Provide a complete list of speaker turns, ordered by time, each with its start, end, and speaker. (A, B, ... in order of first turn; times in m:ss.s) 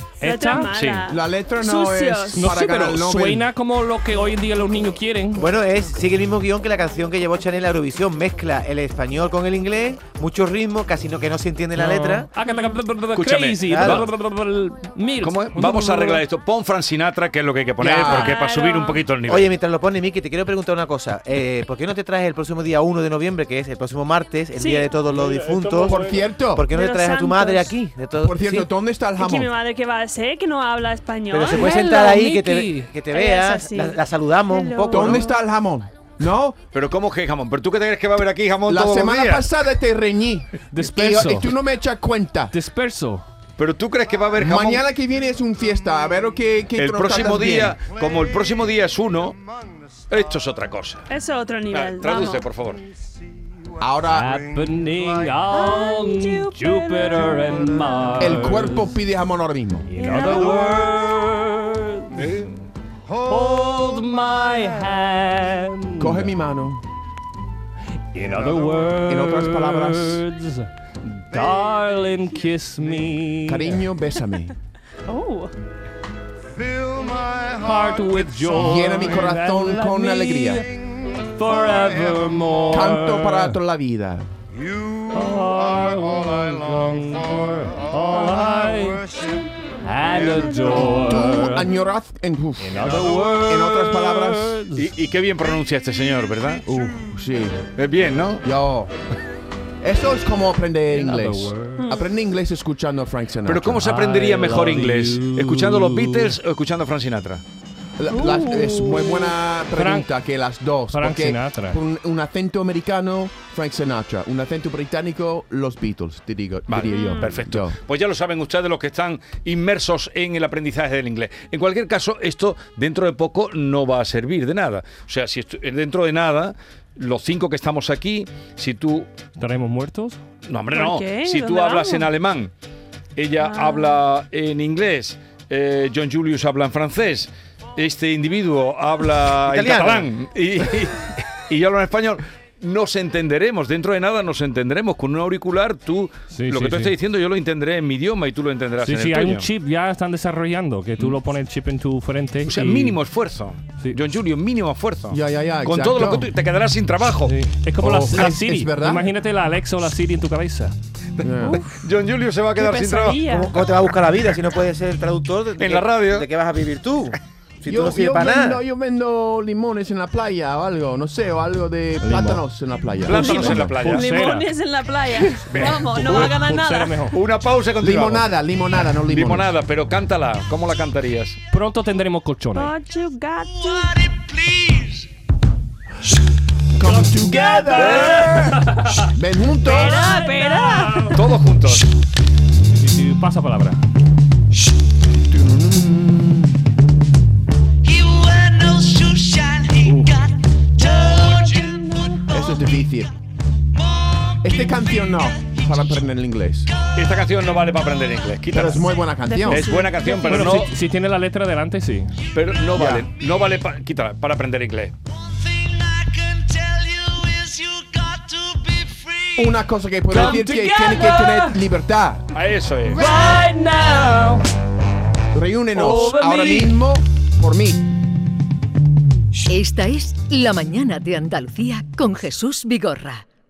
0:00.2-0:00.8 A
0:00.2-0:02.5 B
0:00.7-0:01.0 C
0:01.1-0:03.5 D
0:02.3-0:05.5 A
0:05.4-0:12.3 E
0:11.7-0:16.2 A
0:13.1-0:14.1 C
0:13.7-0:14.1 E
0:15.2-0:19.5 C
0:17.8-0:18.4 D
0:18.0-0:19.0 B
0:19.2-0:28.7 E
0:24.6-0:24.9 B
0:25.1-0:26.3 A
0:25.8-0:26.6 D
0:26.7-0:27.7 B
0:28.2-0:29.5 D
0:29.2-0:31.8 B
0:31.3-0:35.3 E
0:31.4-0:32.9 A
0:33.1-0:35.4 B
0:34.9-0:36.6 D
0:36.7-0:39.6 C
0:38.7-0:42.5 D
0:40.7-0:41.5 A
0:42.5-0:43.2 A
0:43.6-0:44.8 C
0:44.4-0:47.8 D
0:46.8-0:49.4 C
0:50.1-0:51.1 C
0:51.1-0:52.4 B
0:51.7-0:52.9 C
0:53.8-0:54.4 D
0:54.1-0:58.9 A
0:55.5-0:57.6 B
0:58.2-0:59.9 D
0:59.9-1:02.2 A
1:00.0-1:00.9 B
1:02.1-1:02.6 C
1:03.2-1:06.3 A
1:06.0-1:06.8 D
1:08.1-1:13.8 A
1:09.0-1:10.2 D
1:13.5-1:14.5 D
1:15.0-1:15.5 B
1:17.4-1:23.6 A
1:18.5-1:20.6 D
1:22.7-1:24.3 D
1:25.1-1:29.1 A
1:29.8-1:31.7 A
1:30.6-1:34.6 D
1:32.6-1:34.9 A
1:34.8-1:36.7 C
1:36.6-1:37.7 D
1:37.8-1:38.4 C
1:38.4-1:38.9 D
1:39.8-1:43.8 D
1:40.9-1:41.9 A
1:41.8-1:42.0 B
1:43.4-1:47.4 C
1:43.8-1:46.3 A
1:48.0-1:57.8 D
1:48.1-1:49.3 B
1:49.7-1:50.1 A
1:50.9-1:51.8 A
1:56.7-2:09.1 C
1:56.8-1:57.3 B
2:09.4-2:10.2 A
2:10.4-2:12.5 C
2:10.7-2:12.1 B
2:13.2-2:29.5 C
2:13.4-2:14.0 B
2:19.5-2:20.1 E
2:26.3-2:26.9 A
2:28.8-2:33.0 A
2:32.4-2:37.3 C
2:35.1-2:36.3 D
2:37.2-2:40.7 A
2:37.8-2:39.0 D
2:41.2-2:43.7 C
2:41.2-2:41.6 D
2:42.6-2:43.5 B
2:43.2-2:48.6 E
2:45.6-2:46.3 C
2:47.7-2:53.8 D
2:52.0-2:52.4 A
2:53.0-2:54.1 C
2:53.1-2:57.0 B
2:53.1-2:54.5 A
2:55.2-2:56.3 C
2:55.6-2:57.2 A
2:57.1-2:58.3 C
2:57.8-2:59.5 D
2:58.9-3:01.4 C
3:01.5-3:02.7 A
3:02.5-3:04.0 B
3:03.7-3:05.0 C
3:06.7-3:10.0 D
3:07.0-3:08.3 B
3:07.3-3:09.0 A
3:07.8-3:08.3 C
3:09.6-3:11.2 B
3:09.6-3:11.2 A
3:11.1-3:11.9 C
3:12.7-3:13.8 A
3:15.3-3:16.6 D
3:17.8-3:21.6 C
3:19.8-3:20.2 D
3:20.8-3:22.6 B
3:22.3-3:23.1 D
3:24.4-3:26.7 D
3:26.8-3:28.9 C
3:28.5-3:29.8 D
3:29.2-3:30.5 B
3:29.5-3:30.7 C
3:30.2-3:32.2 A
3:32.3-3:34.9 C
3:32.7-3:33.0 D
3:36.1-3:39.3 C
3:39.4-3:42.2 D
3:40.1-3:41.6 A
3:42.3-3:43.0 C
3:42.9-3:44.4 A
3:45.3-3:47.8 D
3:45.7-3:46.8 A
3:49.4-3:53.2 F